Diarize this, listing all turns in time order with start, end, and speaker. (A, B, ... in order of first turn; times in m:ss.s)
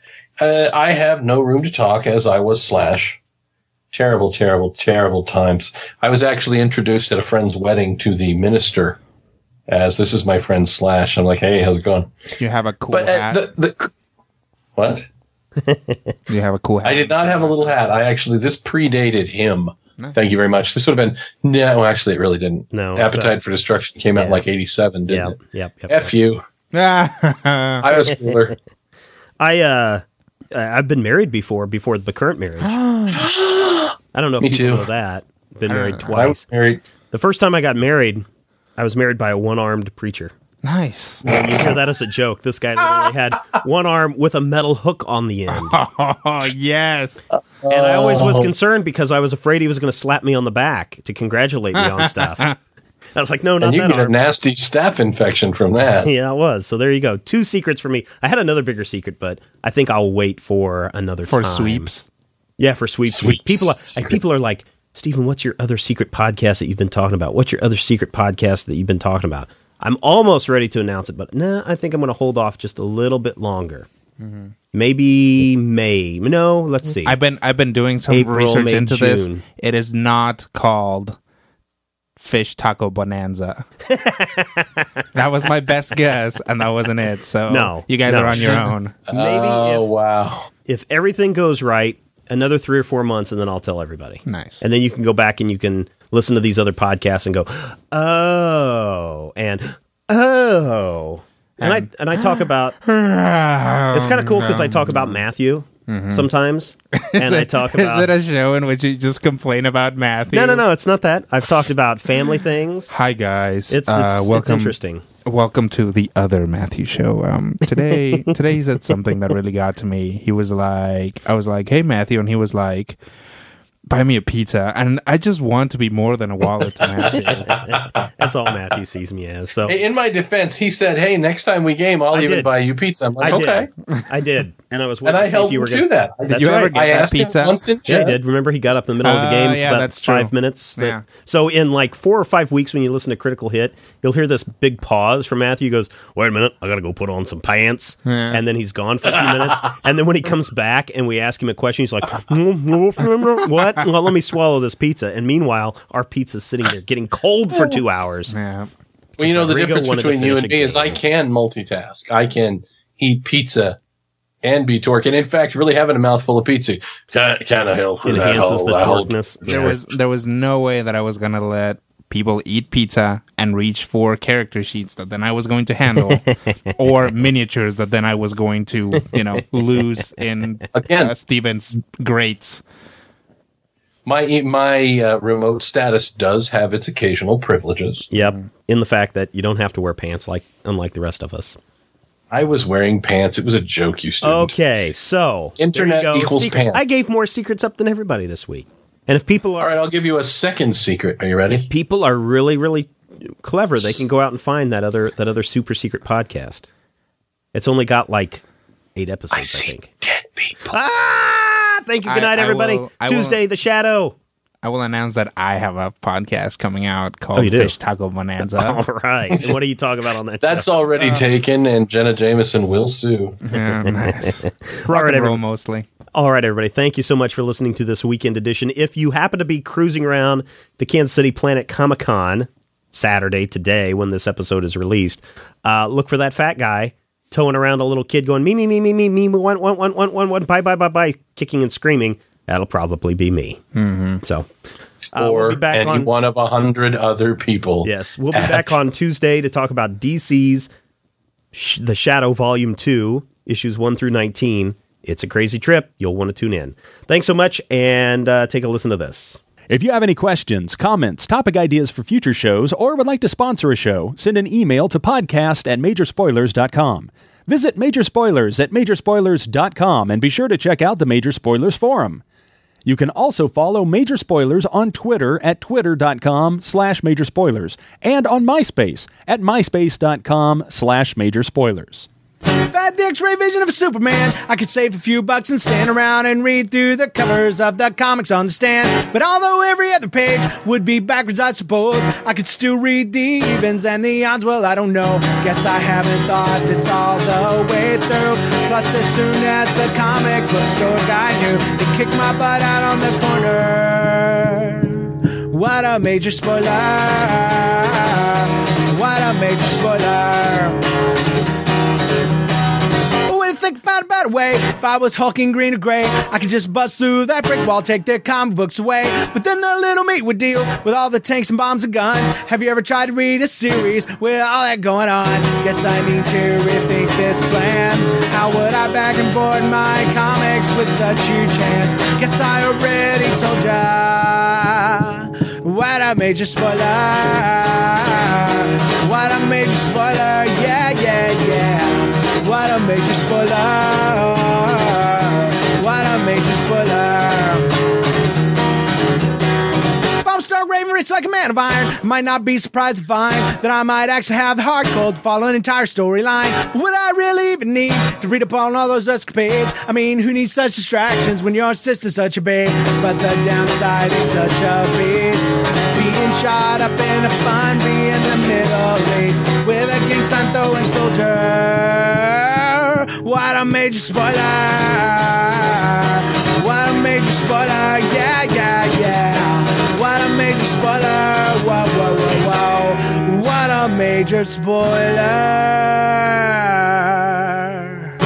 0:00.4-0:03.2 A
0:03.9-0:09.0 A
0:09.7-0:12.1 A
0:12.4-0:13.4 B
0:12.9-0:13.9 A
0:14.8-0:15.1 A
0:15.6-0:16.2 C
0:16.3-0:17.8 B
0:16.8-0:25.4 A
0:22.7-0:23.4 C
0:24.1-0:24.4 C
0:25.1-0:26.1 C
0:25.9-0:26.4 A
0:26.7-0:27.9 B
0:27.8-0:28.6 A
0:28.0-0:28.5 C
0:29.4-0:32.8 C
0:32.6-0:33.3 B
0:33.1-0:34.9 A
0:34.1-0:36.4 C
0:35.7-0:36.3 B
0:36.1-0:36.8 A
0:37.1-0:38.3 C
0:38.8-0:40.3 C
0:40.6-0:41.3 B
0:41.2-0:45.8 C
0:45.5-0:47.2 B
0:47.3-0:48.5 A
0:47.7-0:52.5 C
0:51.8-0:52.6 B
0:53.2-0:54.2 C
0:53.6-0:56.1 A
0:56.0-1:01.9 C
1:01.3-1:02.1 B
1:02.6-1:13.9 C
1:03.1-1:04.2 A
1:14.2-1:14.5 B
1:14.7-1:17.2 C
1:17.0-1:21.2 B
1:18.1-1:19.4 C
1:22.2-1:23.7 B
1:23.9-1:25.0 C
1:25.1-1:29.0 B
1:27.5-1:29.9 C
1:29.1-1:30.5 A
1:30.7-1:42.8 C
1:34.3-1:34.6 B
1:41.6-1:45.2 B
1:43.9-1:48.1 C
1:45.9-1:46.3 B
1:46.9-1:50.6 B
1:50.3-1:52.9 C
1:52.9-2:03.0 B
1:53.7-1:55.0 C
1:57.9-1:58.3 C
2:03.9-2:07.6 B
2:06.8-2:07.2 A
2:07.2-2:09.8 C
2:09.7-2:13.7 A
2:12.1-2:12.5 C
2:13.2-2:16.7 C
2:13.9-2:14.2 B
2:15.0-2:18.2 A
2:16.3-2:17.6 B
2:17.9-2:38.4 C
2:19.0-2:21.0 B
2:28.1-2:28.4 B
2:38.3-2:38.7 B
2:39.2-2:41.0 C
2:39.2-2:43.8 A
2:44.4-2:49.8 A
2:48.0-2:49.8 C
2:49.5-3:02.6 B
2:56.0-2:56.2 C
3:00.8-3:01.1 A
3:04.1-3:08.1 A
3:08.1-3:11.6 C
3:12.3-3:14.5 A
3:14.2-3:19.7 C
3:15.6-3:17.0 A
3:19.6-3:21.7 A
3:21.5-3:26.7 C
3:27.5-3:28.4 C
3:29.0-3:29.9 C
3:29.3-3:30.8 A
3:30.7-3:34.2 C
3:32.0-3:33.4 B
3:34.6-3:38.8 B
3:37.4-3:37.7 C
3:38.5-3:41.1 C
3:40.4-3:43.4 A
3:43.5-3:45.9 B
3:43.5-3:45.4 C
3:46.1-4:03.6 C
4:03.8-4:04.2 B
4:05.1-4:06.1 C
4:05.2-4:08.8 A
4:07.8-4:10.7 C
4:11.5-4:19.4 C
4:19.7-4:32.2 D
4:32.8-4:42.1 D
4:42.7-5:10.8 E
5:13.3-5:47.7 E
5:50.2-6:28.0 E